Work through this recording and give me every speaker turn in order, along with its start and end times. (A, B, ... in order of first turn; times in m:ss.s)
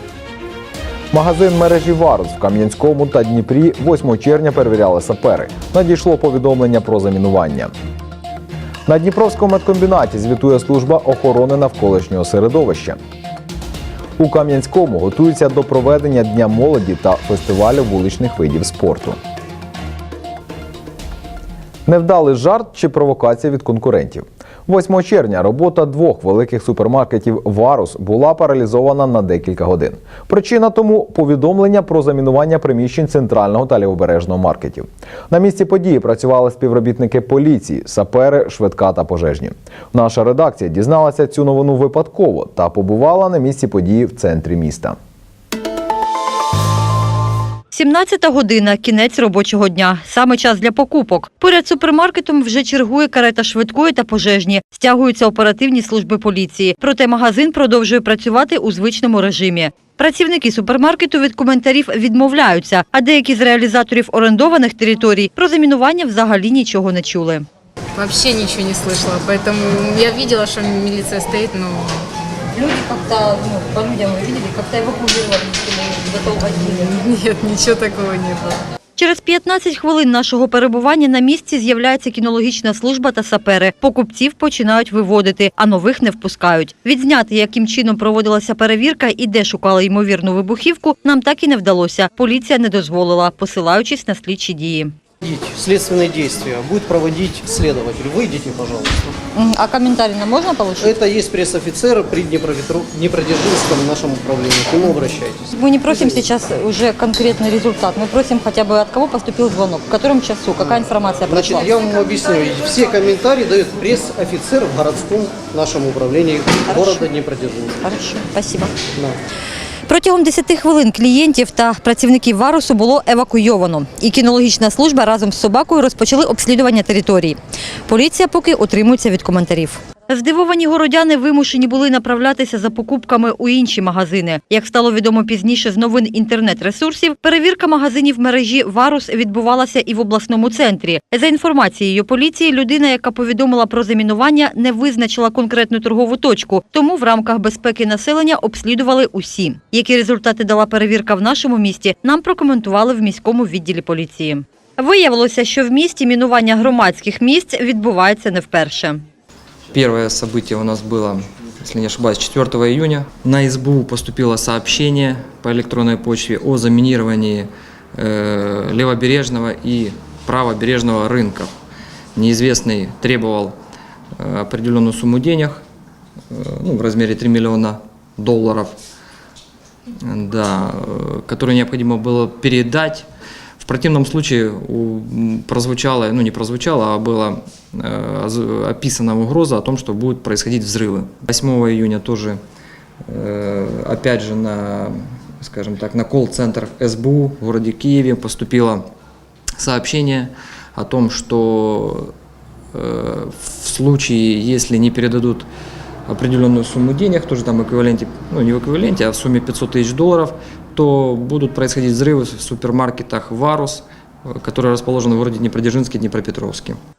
0:01.1-0:07.7 A
0:08.9-0:13.0 A
0:14.2-0:19.2 A
0:21.9-0:45.0 A
0:47.7-1:07.5 B
1:08.0-1:11.9 C
1:12.6-1:16.8 B
1:17.0-1:18.6 C
1:19.0-1:34.9 B
1:35.2-1:39.2 D
1:39.3-1:41.0 B
1:40.8-1:46.3 D
1:45.6-1:51.8 B
1:50.6-1:57.8 D
1:56.6-1:57.1 B
1:57.8-1:58.8 B
1:59.9-2:39.0 B
2:39.7-2:51.5 E
2:52.2-2:53.6 E
2:54.2-2:55.6 E
2:56.3-2:58.8 E
3:00.1-3:03.1 E
3:03.6-3:12.4 E
3:13.1-3:18.9 E
3:19.6-3:22.1 E
3:22.7-3:25.5 E
3:26.1-3:36.8 E